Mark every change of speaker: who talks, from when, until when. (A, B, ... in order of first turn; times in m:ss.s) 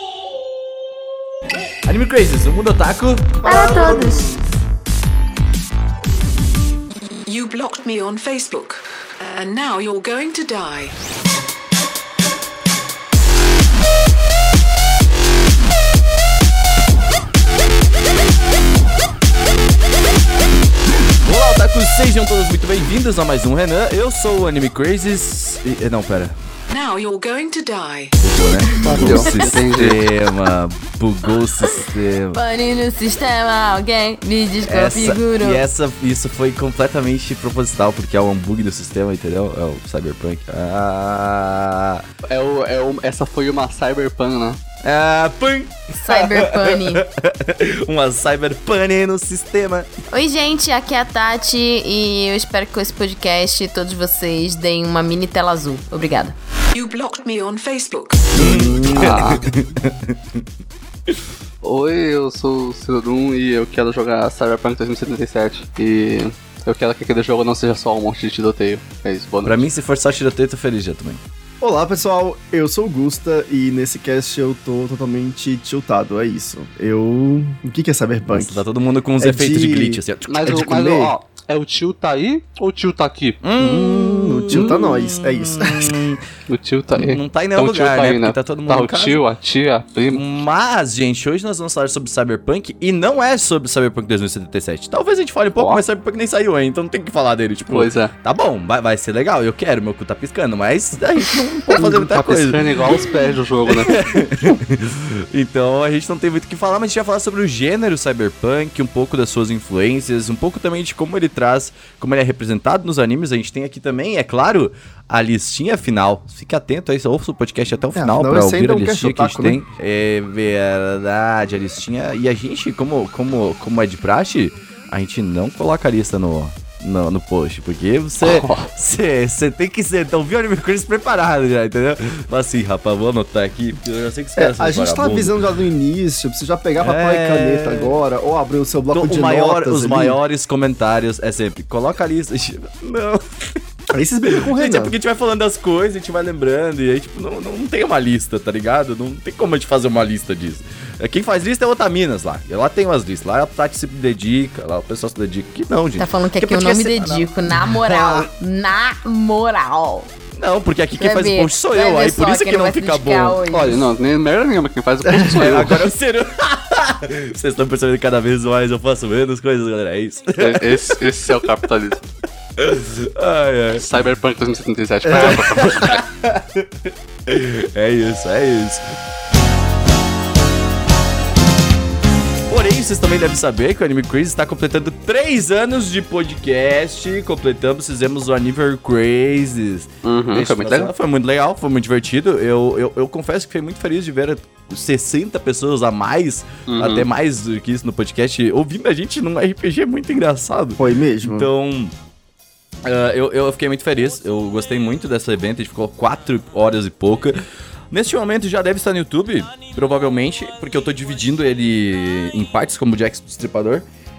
0:01.8-0:04.2 A
0:03.4-0:04.4 B
0:07.3-0:10.9 C
0:21.1-0:26.4 A
0:26.7-0:28.2 C
0:28.2-0:32.4 A
0:28.8-0:30.0 D
0:32.3-0:35.6 E
0:34.6-0:42.0 A
0:42.2-0:44.6 D
0:44.8-0:49.9 A
0:46.0-0:47.0 E
0:50.1-0:56.3 E
0:56.7-0:59.1 C
0:58.4-1:00.4 A
0:58.4-0:59.2 B
0:58.9-0:59.4 D
1:01.6-1:09.6 D
1:09.4-1:11.2 A
1:11.6-1:18.6 B
1:18.3-1:20.6 A
1:19.2-1:21.1 B
1:20.3-1:23.4 D
1:23.4-1:26.2 A
1:23.6-1:26.0 B
1:26.5-1:30.2 D
1:27.0-1:29.2 A
1:30.1-1:43.1 A
1:35.6-1:35.8 D
1:37.7-1:38.1 D
1:41.7-1:44.1 D
1:43.6-2:15.4 A
1:57.9-1:59.6 B
2:08.2-2:08.7 D
2:14.4-2:20.2 B
2:16.8-2:18.0 A
2:18.9-2:23.6 A
2:23.9-2:24.9 B
2:24.3-2:38.3 A
2:36.0-2:40.1 E
2:40.3-2:43.4 A
2:41.0-2:43.8 E
2:43.5-2:45.8 D
2:45.0-2:45.3 B
2:45.3-2:51.5 A
2:50.4-2:52.0 D
2:52.6-2:53.8 A
2:53.8-2:56.0 D
2:55.2-2:58.8 A
3:02.5-3:21.9 A
3:10.0-3:10.9 D
3:16.7-3:17.1 D
3:20.8-3:21.5 B
3:22.8-3:27.4 A
3:27.9-3:33.8 A